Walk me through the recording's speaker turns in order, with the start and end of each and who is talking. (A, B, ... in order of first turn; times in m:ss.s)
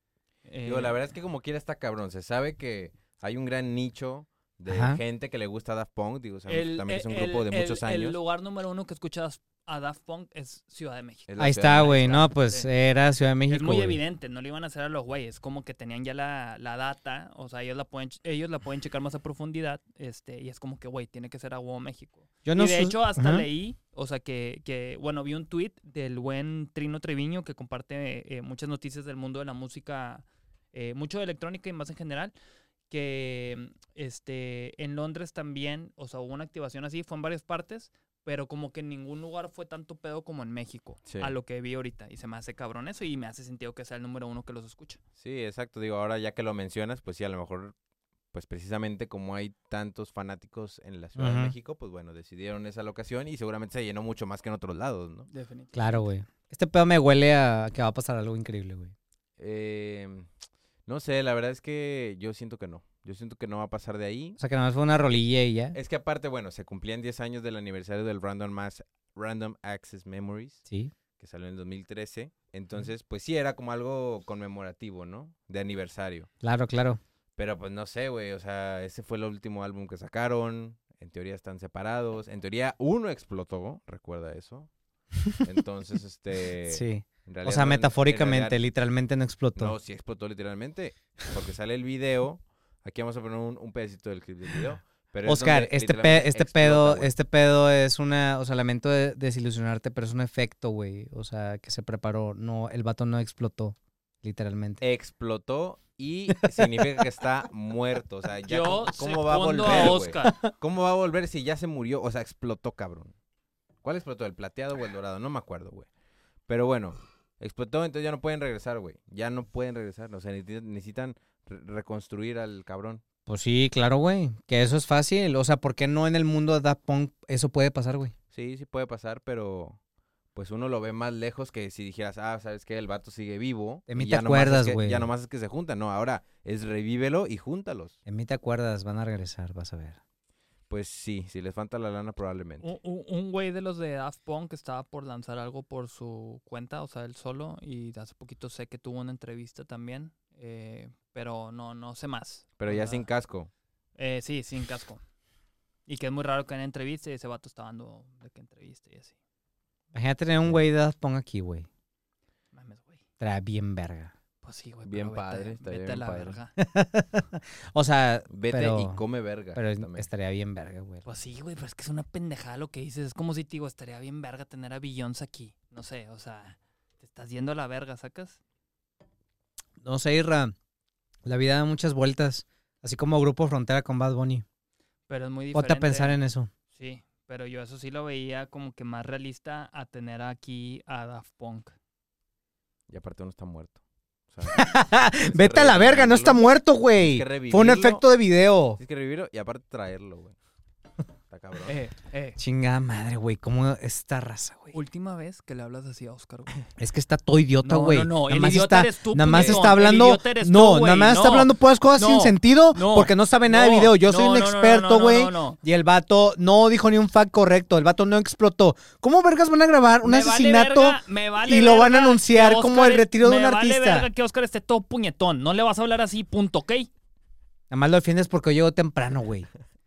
0:00.4-0:01.0 A
0:00.6-0:08.2 B
0:04.7-0:05.0 C
0:06.5-0:12.7 A
0:11.3-0:12.0 B
0:11.4-0:14.0 C
0:13.5-0:32.3 A
0:22.4-0:23.4 C
0:32.9-0:45.0 A
0:41.0-0:41.3 B
0:45.2-0:47.7 B
0:48.3-0:55.3 B
0:51.2-0:51.5 C
0:55.3-0:56.0 A
0:55.7-0:58.9 C
0:59.4-1:00.3 B
1:00.9-1:04.4 B
1:04.4-1:05.8 C
1:05.7-1:10.6 B
1:11.2-1:16.3 B
1:16.4-1:17.0 C
1:17.4-1:24.7 B
1:25.4-1:28.6 B
1:26.7-1:29.7 C
1:29.6-1:37.1 B
1:35.2-1:44.8 C
1:44.8-1:53.1 B
1:46.4-1:46.8 C
1:48.4-1:50.3 A
1:49.8-1:50.5 C
1:53.8-1:55.9 B
1:56.5-2:03.0 B
2:03.3-2:08.1 C
2:08.3-2:09.8 B
2:10.3-2:18.0 B
2:13.9-2:15.1 C
2:18.1-2:20.0 C
2:20.7-2:22.7 B
2:22.6-2:33.0 A
2:32.6-2:33.5 B
2:34.0-2:35.0 A
2:35.9-2:39.1 A
2:39.9-2:41.7 C
2:42.5-2:43.0 A
2:43.2-2:44.1 C
2:44.4-2:46.5 A
2:44.8-2:46.4 B
2:46.6-2:49.0 C
2:48.3-2:50.1 B
2:49.5-2:51.0 C
2:51.0-2:58.4 A
2:59.8-3:00.5 C
3:01.2-3:04.4 C
3:05.1-3:06.2 A
3:05.5-3:06.5 C
3:06.7-3:11.7 A
3:12.9-3:13.8 B
3:14.3-3:18.0 B
3:14.5-3:18.8 C
3:18.8-3:20.3 B
3:21.3-3:21.8 B
3:21.6-3:22.4 A
3:22.4-3:24.8 C
3:24.7-3:26.5 A
3:26.8-3:44.1 C
3:27.6-3:35.6 A
3:29.3-3:29.7 B
3:40.0-3:46.9 A
3:47.7-3:49.5 C